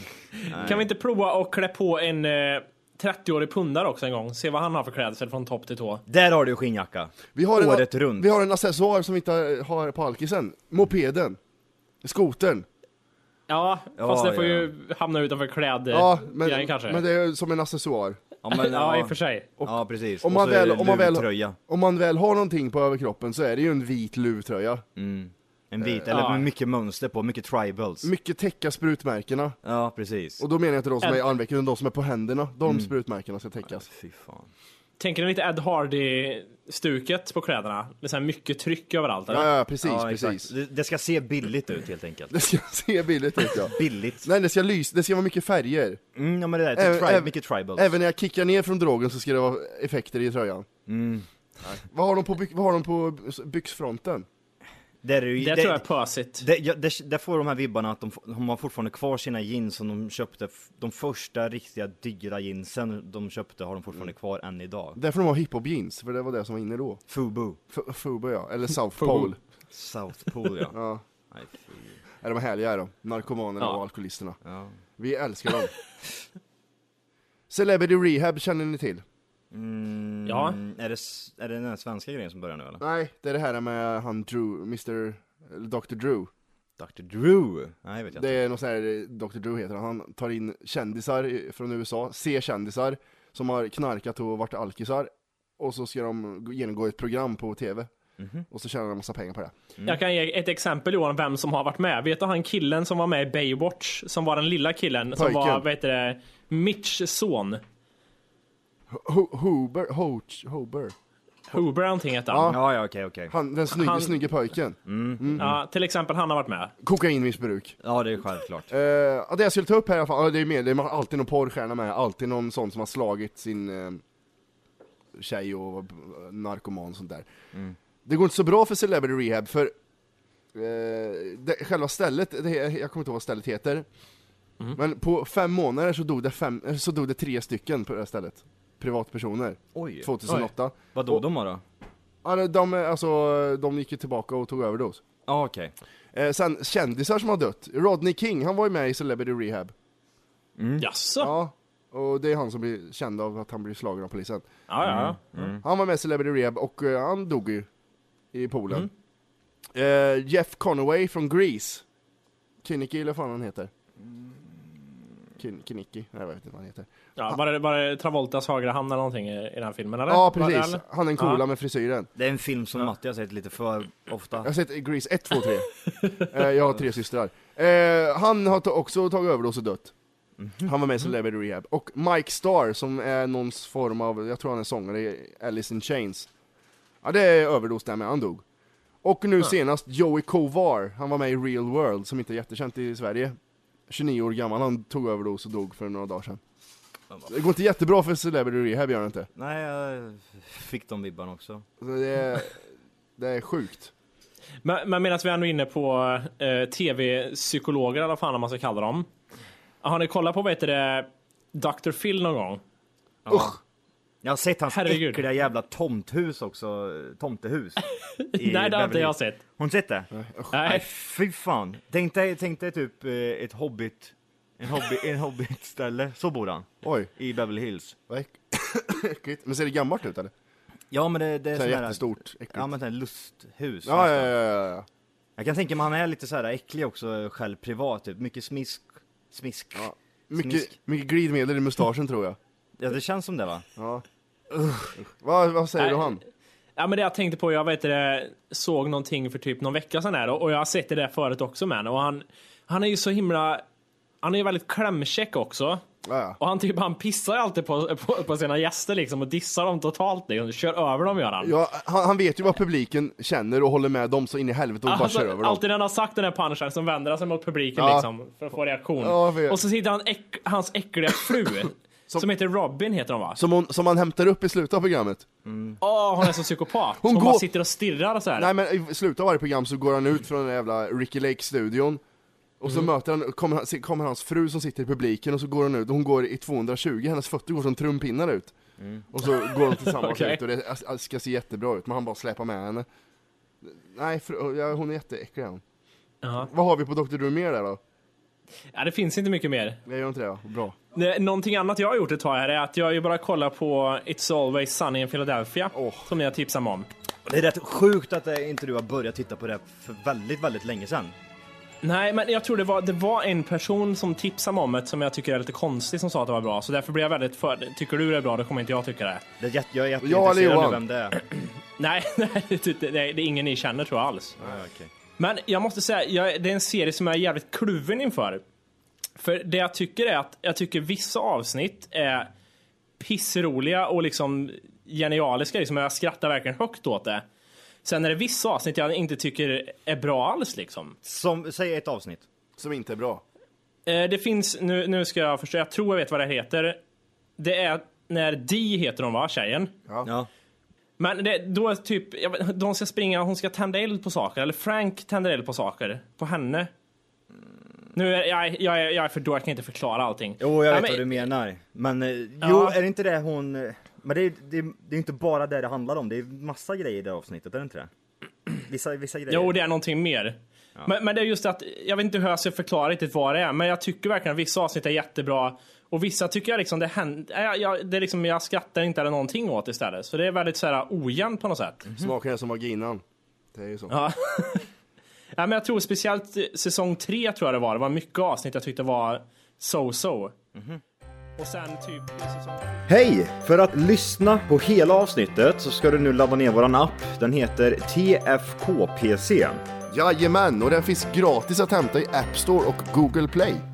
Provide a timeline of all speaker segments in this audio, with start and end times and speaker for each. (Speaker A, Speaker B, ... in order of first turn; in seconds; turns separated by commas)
Speaker A: 0.4-6.0, Speaker B: 0.5-0.9, Speaker B: 6.1-8.3, Speaker C: 7.3-11.4, Speaker C: 12.0-12.7, Speaker A: 13.5-17.0, Speaker B: 14.0-14.7, Speaker C: 15.9-18.2, Speaker B: 18.4-21.6, Speaker A: 18.5-19.5, Speaker C: 19.6-24.8, Speaker B: 25.0-28.1, Speaker C: 25.8-26.1, Speaker A: 26.1-26.5, Speaker C: 28.0-29.6, Speaker B: 29.6-30.4, Speaker C: 30.4-33.9, Speaker B: 32.7-32.9, Speaker B: 33.7-34.5, Speaker A: 35.0-39.5, Speaker C: 39.3-40.5, Speaker B: 39.8-42.4, Speaker C: 42.3-46.0, Speaker B: 43.5-44.3, Speaker B: 46.2-47.9, Speaker C: 46.8-50.7, Speaker B: 50.9-51.3, Speaker C: 51.6-54.3, Speaker B: 55.0-55.8, Speaker A: 55.4-56.5, Speaker B: 56.4-65.0, Speaker C: 65.0-67.0, Speaker B: 67.1-67.6, Speaker C: 67.7-69.4, Speaker A: 69.0-69.3, Speaker B: 69.7-70.8, Speaker C: 70.7-71.0, Speaker B: 71.3-72.0, Speaker C: 72.2-74.4, Speaker B: 74.4-74.8, Speaker C: 75.0-75.8, Speaker C: 77.5-79.0, Speaker B: 79.5-82.8, Speaker A: 80.3-80.6, Speaker C: 82.8-86.3, Speaker B: 86.8-88.4, Speaker C: 88.2-97.9, Speaker B: 98.2-98.5, Speaker C: 98.5-99.5, Speaker A: 99.8-107.6, Speaker C: 105.2-105.7, Speaker C: 108.9-110.9, Speaker A: 111.5-112.6, Speaker C: 112.3-112.6, Speaker B: 112.5-113.3, Speaker C: 113.3-115.4, Speaker A: 113.7-114.2, Speaker B: 114.9-115.6, Speaker A: 115.4-116.7, Speaker C: 116.8-117.8, Speaker B: 117.8-118.7, Speaker C: 118.7-124.0, Speaker C: 125.2-127.3, Speaker C: 128.1-129.7, Speaker C: 130.5-133.9, Speaker C: 134.8-141.2, Speaker B: 139.8-140.1, Speaker B: 140.9-141.6, Speaker C: 142.2-145.0, Speaker B: 145.3-145.7, Speaker C: 146.1-149.7, Speaker B: 150.6-150.9, Speaker A: 150.8-151.3, Speaker C: 151.2-154.5, Speaker A: 154.7-155.2, Speaker B: 154.8-155.6, Speaker C: 155.6-157.7, Speaker C: 158.3-158.9, Speaker C: 159.8-161.8, Speaker C: 162.6-163.7, Speaker C: 165.4-166.9, Speaker A: 167.2-171.4, Speaker C: 170.1-172.1, Speaker B: 172.2-174.5, Speaker C: 174.4-179.9, Speaker B: 180.4-180.7, Speaker C: 180.6-186.3, Speaker C: 187.0-188.4, Speaker C: 189.0-193.4, Speaker C: 193.9-196.4, Speaker C: 197.3-199.3, Speaker B: 199.3-201.7, Speaker C: 201.8-202.6, Speaker C: 203.2-203.9, Speaker A: 204.6-209.1, Speaker A: 209.8-212.6, Speaker B: 213.3-213.6, Speaker B: 214.2-217.8, Speaker A: 214.7-215.2, Speaker A: 218.2-219.4, Speaker B: 218.3-220.1, Speaker C: 220.1-220.6, Speaker A: 220.5-220.8, Speaker B: 220.6-228.0, Speaker C: 226.8-227.1, Speaker C: 228.1-230.3, Speaker B: 230.9-234.3, Speaker C: 231.5-232.7, Speaker C: 233.8-234.9, Speaker B: 235.4-240.7, Speaker C: 239.8-242.4, Speaker B: 242.8-243.7, Speaker C: 243.8-244.0, Speaker C: 245.1-246.2, Speaker A: 245.8-246.1, Speaker A: 246.8-253.6, Speaker A: 254.2-255.8, Speaker C: 256.0-256.4, Speaker A: 256.4-261.6, Speaker C: 261.4-265.6, Speaker A: 264.9-273.4, Speaker C: 267.8-268.1, Speaker C: 269.0-269.6, Speaker C: 273.4-275.3, Speaker B: 275.5-275.8, Speaker A: 275.8-278.5, Speaker C: 277.0-277.5, Speaker C: 278.4-282.0, Speaker C: 282.6-288.6, Speaker B: 288.8-289.1, Speaker C: 289.1-292.9, Speaker A: 289.2-290.4, Speaker C: 293.6-295.6, Speaker A: 296.2-296.5, Speaker C: 296.4-297.8, Speaker A: 298.7-299.8, Speaker C: 299.9-300.8, Speaker A: 300.9-306.9, Speaker C: 305.8-306.1, Speaker B: 307.3-311.1, Speaker A: 311.8-319.2, Speaker B: 319.4-321.2, Speaker C: 320.0-320.8, Speaker A: 321.8-324.4, Speaker B: 324.4-324.9, Speaker A: 325.2-328.4, Speaker A: 329.2-332.3, Speaker A: 333.0-337.2, Speaker A: 337.8-341.0, Speaker B: 341.0-342.2, Speaker C: 342.6-343.2, Speaker A: 343.9-346.8, Speaker A: 347.4-349.7, Speaker B: 350.0-350.3, Speaker A: 351.0-356.7, Speaker A: 357.9-361.2, Speaker B: 360.4-367.9, Speaker A: 362.4-362.8, Speaker B: 368.5-369.6, Speaker A: 369.3-381.8, Speaker B: 381.9-382.1, Speaker C: 382.0-383.0, Speaker C: 383.5-383.9, Speaker A: 383.9-384.7, Speaker A: 385.4-390.3, Speaker B: 390.6-390.8, Speaker A: 391.4-392.9, Speaker B: 392.9-399.6, Speaker C: 399.9-403.6